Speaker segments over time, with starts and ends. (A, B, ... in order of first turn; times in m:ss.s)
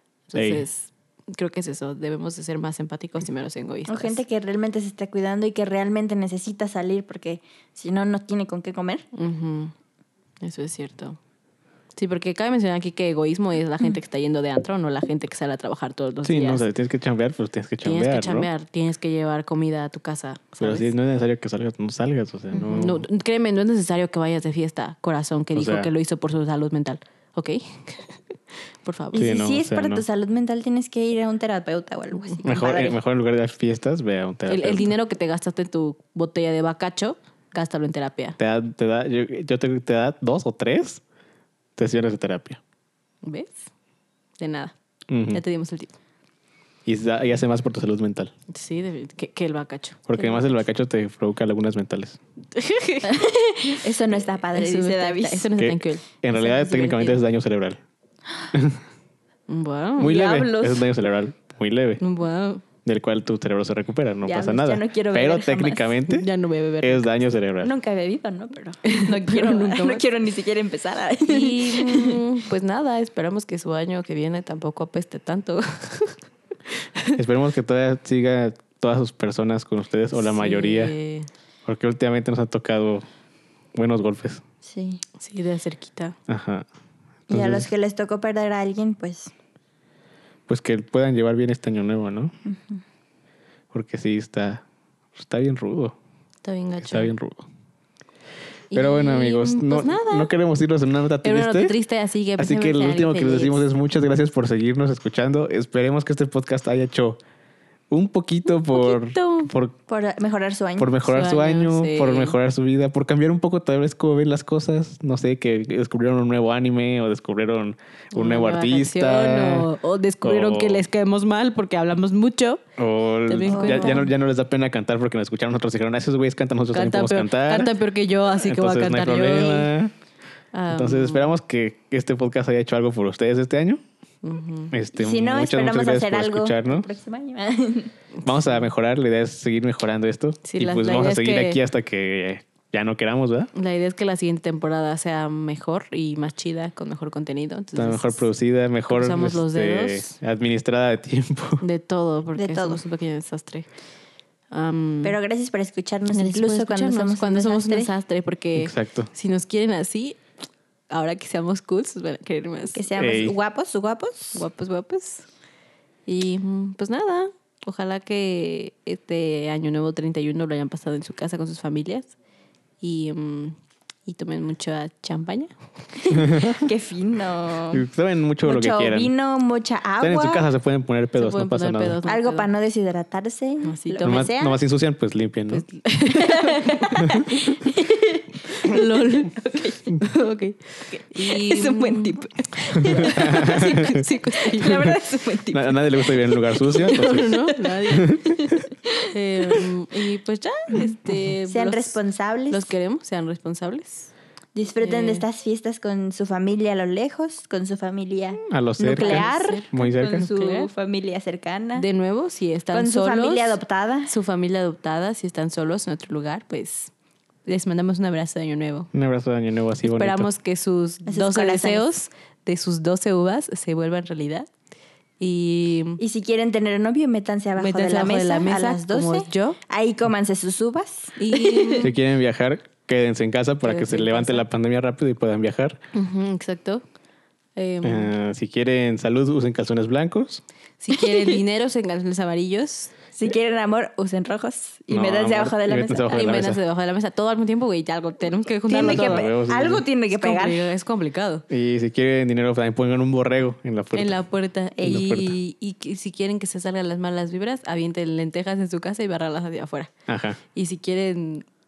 0:00.3-0:04.2 A
0:00.3-0:00.6 B
0:03.9-0:09.0 C
0:09.1-0:09.7 A
0:10.4-0:11.2 A
0:12.0-0:16.7 A
0:16.2-0:18.5 B
0:17.8-0:20.9 A
0:20.6-0:23.0 B
0:22.5-0:28.2 A
0:25.5-0:25.9 B
0:28.8-0:29.3 A
0:29.1-0:33.0 C
0:29.1-0:30.0 B
0:32.3-0:32.8 A
0:32.4-0:34.9 B
0:34.4-0:38.4 A
0:38.4-0:41.0 B
0:41.8-0:42.6 B
0:43.2-0:43.6 A
0:44.4-0:44.8 A
0:45.1-0:45.4 B
0:45.3-0:45.9 A
0:46.8-0:48.3 B
0:48.5-0:50.6 A
0:50.1-0:52.2 B
0:52.5-0:57.2 A
0:53.0-0:55.5 C
0:55.6-0:57.8 B
0:58.5-0:58.8 B
0:59.5-1:00.2 A
1:00.0-1:02.0 B
1:00.0-1:00.9 C
1:02.0-1:02.6 A
1:02.8-1:06.3 B
1:04.2-1:05.9 C
1:06.1-1:07.1 A
1:06.8-1:07.7 B
1:07.6-1:12.2 C
1:08.8-1:10.0 A
1:11.2-1:16.2 A
1:17.2-1:20.9 B
1:20.2-1:21.3 A
1:21.6-1:23.0 B
1:23.7-1:24.4 B
1:24.6-1:25.0 C
1:25.2-1:26.2 A
1:26.3-1:26.6 B
1:27.3-1:27.7 B
1:27.3-1:29.3 C
1:30.5-1:32.3 B
1:32.4-1:32.8 C
1:33.7-1:34.6 B
1:35.1-1:36.0 B
1:36.4-1:37.1 A
1:36.8-1:37.5 B
1:38.7-1:40.3 A
1:38.7-1:41.8 B
1:41.2-1:43.6 A
1:42.4-1:47.2 B
1:47.9-1:49.8 B
1:48.7-1:49.5 A
1:49.9-1:50.9 C
1:50.8-1:59.7 B
1:51.0-1:52.3 A
1:58.1-2:02.7 A
2:00.2-2:00.8 B
2:02.8-2:07.7 B
2:03.2-2:04.1 A
2:03.5-2:04.0 C
2:06.7-2:09.7 A
2:08.3-2:09.9 B
2:10.5-2:11.4 A
2:10.7-2:13.8 B
2:14.2-2:14.7 A
2:14.7-2:16.9 B
2:15.0-2:17.9 C
2:18.2-2:18.6 A
2:18.2-2:23.5 B
2:20.4-2:21.6 A
2:23.5-2:28.3 A
2:27.8-2:31.6 B
2:28.9-2:30.2 A
2:31.6-2:33.7 A
2:32.4-2:32.8 C
2:34.5-2:35.2 A
2:35.0-2:37.9 C
2:36.1-2:40.2 A
2:38.6-2:39.1 B
2:40.9-2:42.8 A
2:42.7-2:44.4 C
2:43.0-2:43.4 B
2:44.3-2:45.2 A
2:46.0-2:52.1 A
2:52.8-2:55.5 A
2:56.0-2:57.8 C
2:56.1-2:56.6 B
2:57.7-2:59.1 B
2:58.4-3:00.5 C
3:00.0-3:02.0 B
3:01.1-3:02.5 A
3:02.0-3:04.6 C
3:03.6-3:04.3 A
3:04.0-3:05.6 B
3:05.5-3:07.3 A
3:06.1-3:10.0 C
3:07.0-3:07.3 B
3:08.5-3:09.3 A
3:10.0-3:14.9 A
3:10.9-3:17.6 C
3:12.8-3:14.0 B
3:15.5-3:18.4 B
3:16.7-3:18.2 A
3:18.3-3:19.6 C
3:19.1-3:22.0 A
3:21.5-3:22.7 C
3:22.5-3:24.1 A
3:24.5-3:31.8 C
3:24.8-3:25.2 A
3:28.5-3:30.3 B
3:28.9-3:29.7 A
3:30.3-3:30.7 A
3:31.7-3:36.9 A
3:32.7-3:34.1 C
3:37.4-3:38.9 A
3:38.9-3:40.3 B
3:39.8-3:44.5 A
3:41.0-3:41.9 C
3:45.2-3:46.0 A
3:46.0-3:51.9 C
3:47.6-3:49.6 A
3:51.2-3:51.9 A
3:51.8-3:55.8 B
3:53.6-3:54.4 A
3:55.9-3:56.8 A
3:57.6-3:58.1 A
3:57.8-4:00.4 B
4:00.8-4:02.9 A
4:01.0-4:01.4 C
4:03.1-4:06.3 C
4:04.9-4:06.6 B
4:06.1-4:09.3 A
4:08.7-4:10.7 C
4:08.8-4:09.8 B
4:10.1-4:11.4 A
4:11.5-4:14.2 B
4:13.9-4:19.9 A
4:14.8-4:15.2 C
4:14.8-4:15.3 B
4:20.1-4:20.4 B
4:20.5-4:21.4 A